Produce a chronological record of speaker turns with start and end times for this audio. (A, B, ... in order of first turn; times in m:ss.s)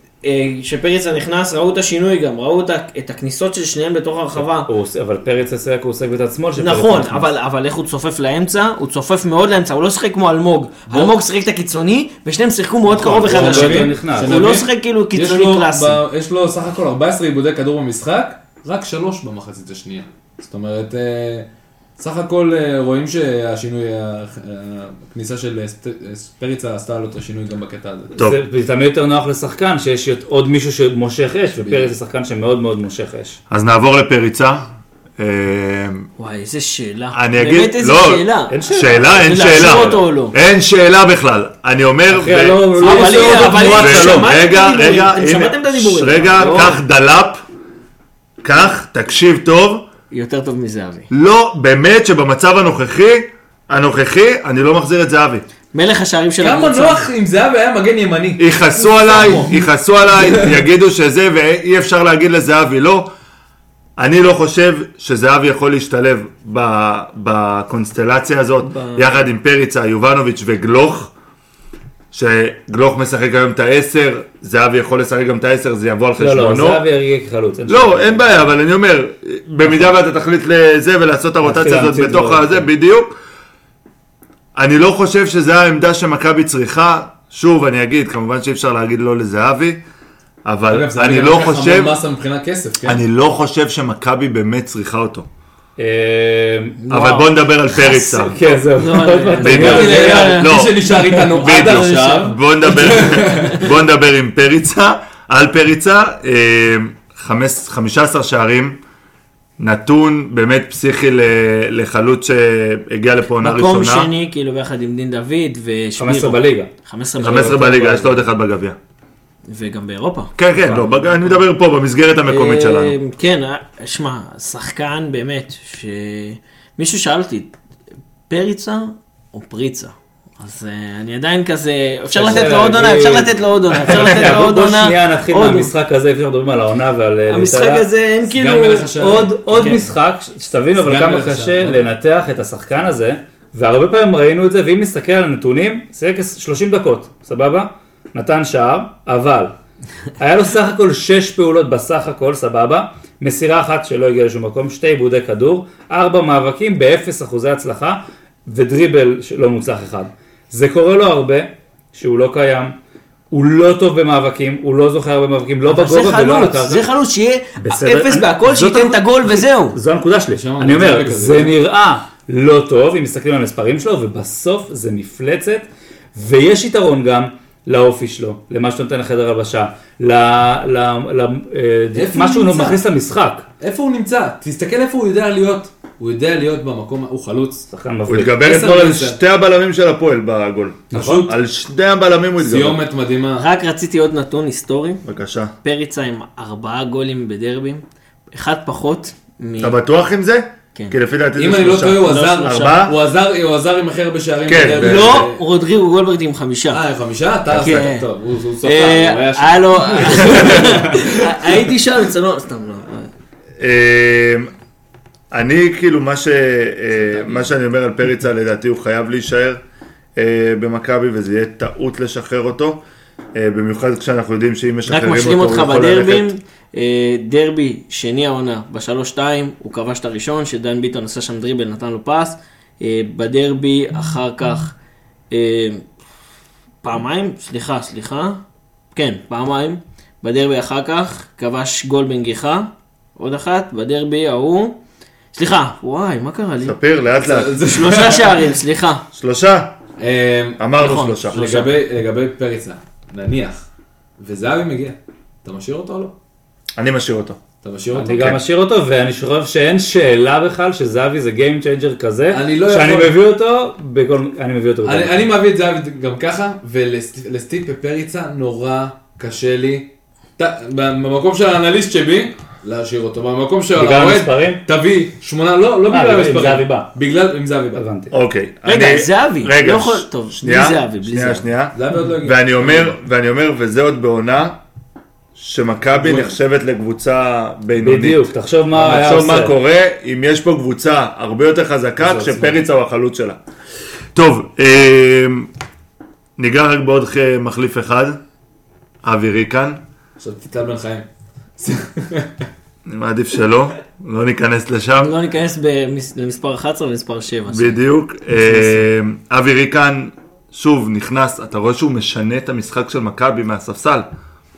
0:00.2-0:04.7 A
0:04.4-0:07.3 B
0:06.6-0:16.0 A
0:13.0-0:14.4 B
0:13.2-0:28.1 C
0:28.2-0:33.4 B
0:31.6-0:31.9 C
0:33.5-0:34.7 D
0:35.2-0:36.1 D
0:36.2-0:38.6 A
0:37.1-0:47.4 D
0:38.5-0:40.0 B
0:39.2-0:40.3 A
0:42.1-0:44.3 B
0:42.8-0:46.8 A
0:48.4-0:49.8 D
0:50.1-0:51.1 A
0:51.1-0:55.4 D
0:55.7-0:57.0 A
0:56.4-1:00.6 C
0:58.4-1:03.1 D
1:04.0-1:11.1 D
1:08.6-1:09.1 A
1:12.1-1:16.8 D
1:16.2-1:18.3 B
1:17.7-1:23.1 D
1:19.6-1:19.9 B
1:21.4-1:22.7 B
1:24.5-1:29.8 D
1:30.4-1:32.0 D
1:30.7-1:33.0 C
1:32.8-1:35.3 D
1:35.8-1:36.8 B
1:36.8-1:40.6 A
1:36.9-1:38.4 D
1:38.0-1:40.2 B
1:39.4-1:48.8 D
1:39.5-1:43.6 C
1:41.5-1:42.2 A
1:49.6-1:54.1 D
1:53.4-1:58.2 A
1:56.0-1:56.7 B
1:57.2-1:58.8 D
1:59.5-2:00.3 A
2:00.4-2:03.0 D
2:00.6-2:00.9 B
2:02.3-2:07.5 A
2:08.3-2:15.7 A
2:12.1-2:17.8 B
2:17.3-2:19.0 A
2:18.3-2:19.8 C
2:19.0-2:29.5 B
2:19.5-2:19.8 A
2:20.8-2:21.8 C
2:30.2-2:42.7 B
2:43.3-2:46.9 B
2:45.6-2:49.8 A
2:47.6-3:03.4 B
2:50.3-2:51.5 C
3:01.9-3:02.8 C
3:03.6-3:07.7 C
3:07.7-3:08.4 B
3:08.1-3:12.8 D
3:08.4-3:09.2 C
3:10.9-3:11.3 B
3:10.9-3:11.3 C
3:12.4-3:13.4 C
3:13.4-3:15.0 A
3:15.0-3:15.5 D
3:15.6-3:19.8 A
3:19.6-3:23.0 D
3:21.4-3:25.4 C
3:22.0-3:22.8 A
3:24.5-3:25.2 D
3:24.7-3:26.8 A
3:26.7-3:31.6 C
3:27.5-3:28.1 A
3:28.6-3:33.1 A
3:33.6-3:34.5 D
3:35.3-3:39.6 D
3:37.0-3:37.5 C
3:40.2-3:42.8 D
3:43.3-3:46.3 D
3:44.9-3:54.7 A
3:55.3-3:55.9 A
3:56.8-3:58.4 A
3:58.9-4:04.8 A
4:05.3-4:06.8 A
4:06.6-4:07.6 D
4:07.2-4:08.5 C
4:07.6-4:09.0 A
4:09.1-4:09.7 D
4:10.0-4:10.6 C
4:10.6-4:11.5 D
4:10.8-4:11.7 A
4:11.3-4:13.7 C
4:14.2-4:16.1 C
4:16.8-4:17.4 D
4:17.6-4:18.4 C
4:17.9-4:25.2 B
4:22.3-4:23.2 C
4:24.8-4:37.8 C
4:33.7-4:34.6 B
4:35.9-4:36.9 B
4:37.7-4:38.1 B
4:38.1-4:44.6 D
4:38.6-4:41.5 A
4:41.7-4:43.0 C
4:45.4-4:53.4 D
4:46.0-4:46.4 C
4:47.8-4:49.5 B
4:52.0-4:52.6 C
4:54.1-4:55.5 D
4:56.4-4:58.2 D
4:59.0-4:59.8 D
5:00.2-5:01.0 C
5:01.6-5:02.5 C
5:02.8-5:05.1 D
5:05.0-5:07.8 A
5:07.5-5:14.1 D
5:08.5-5:08.8 C